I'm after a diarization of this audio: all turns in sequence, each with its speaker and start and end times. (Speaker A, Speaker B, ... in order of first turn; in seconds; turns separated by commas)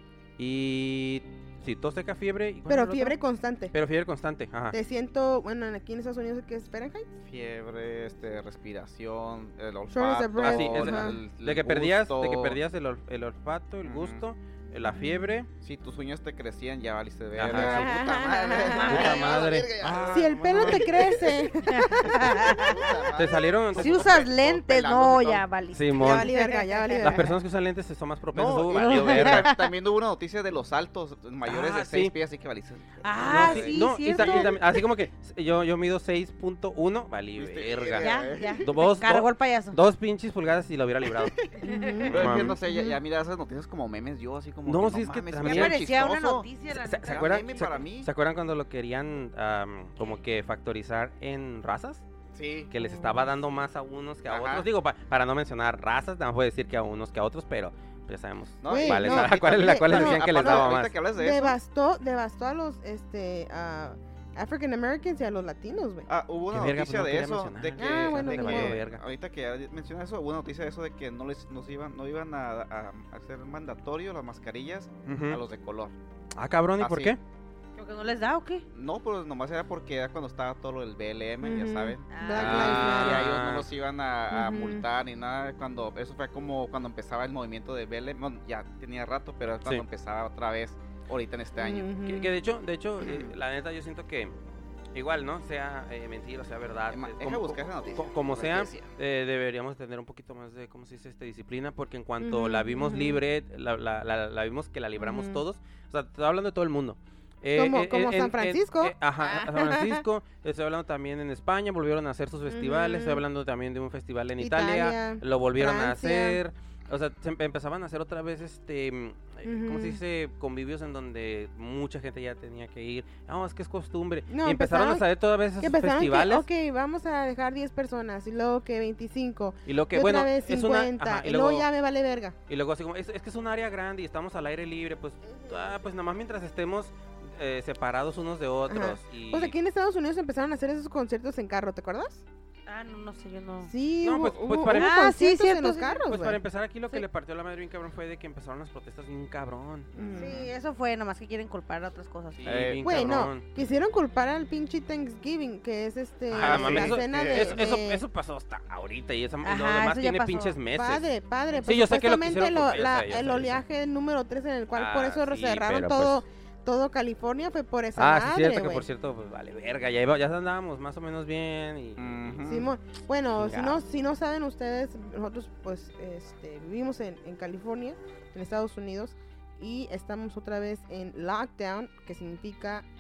Speaker A: 0.4-3.2, Speaker B: 2.7-3.7, Speaker A: 3.7-4.8, Speaker B: 4.7-7.1, Speaker C: 7.2-12.6, Speaker B: 9.9-11.2, Speaker A: 10.4-15.5, Speaker C: 13.8-14.2, Speaker B: 14.8-15.4, Speaker C: 15.6-25.4, Speaker A: 17.3-18.0, Speaker B: 17.5-19.1, Speaker D: 17.6-19.4, Speaker A: 18.8-21.1, Speaker B: 20.1-23.4, Speaker D: 21.6-22.9, Speaker A: 23.1-24.2, Speaker D: 23.8-27.2, Speaker A: 25.7-26.3, Speaker B: 26.0-27.4, Speaker A: 27.0-29.5, Speaker C: 28.3-34.4, Speaker D: 28.8-29.7, Speaker A: 31.4-32.1, Speaker D: 33.0-34.6, Speaker A: 33.2-41.4, Speaker C: 37.4-38.7, Speaker D: 38.0-39.8, Speaker C: 41.0-46.5, Speaker B: 41.6-43.0, Speaker D: 41.6-42.0, Speaker A: 42.1-42.6, Speaker A: 44.6-45.8, Speaker D: 45.4-47.5, Speaker A: 46.7-52.0, Speaker C: 47.0-48.1, Speaker C: 52.3-52.7, Speaker A: 52.7-61.0, Speaker B: 52.8-53.3, Speaker C: 54.3-54.7, Speaker C: 58.6-61.6, Speaker B: 58.7-66.1, Speaker C: 66.1-76.0, Speaker A: 66.5-69.0, Speaker B: 67.8-68.8, Speaker A: 75.1-75.4, Speaker A: 76.3-77.2, Speaker C: 76.8-77.2, Speaker D: 77.8-78.7, Speaker C: 78.7-91.9, Speaker B: 81.4-83.3, Speaker D: 82.1-82.7, Speaker A: 82.4-83.7, Speaker B: 84.3-84.8, Speaker B: 91.6-92.3, Speaker A: 92.0-94.3, Speaker C: 93.0-93.3, Speaker A: 94.9-126.5, Speaker C: 96.9-98.9, Speaker B: 102.2-103.2, Speaker B: 105.0-105.4, Speaker B: 107.5-110.0, Speaker B: 112.5-113.2, Speaker B: 114.4-116.4, Speaker B: 119.4-120.0, Speaker B: 124.3-125.1, Speaker B: 125.6-132.4, Speaker A: 129.7-131.7, Speaker A: 132.5-139.6, Speaker B: 135.2-135.7, Speaker B: 138.7-142.2, Speaker D: 142.7-143.7, Speaker B: 143.7-146.4, Speaker A: 144.0-145.0, Speaker D: 144.7-146.0, Speaker A: 146.0-149.9, Speaker C: 149.9-150.5, Speaker B: 150.0-150.5, Speaker D: 150.2-152.6, Speaker A: 152.4-153.4, Speaker C: 152.5-152.8, Speaker B: 152.8-158.0, Speaker A: 156.3-161.1, Speaker C: 156.3-157.7, Speaker D: 159.4-160.6, Speaker B: 160.7-168.9, Speaker A: 161.6-163.6, Speaker A: 164.7-166.2, Speaker A: 168.0-172.6, Speaker C: 172.0-172.7, Speaker B: 172.5-182.8, Speaker A: 173.4-173.8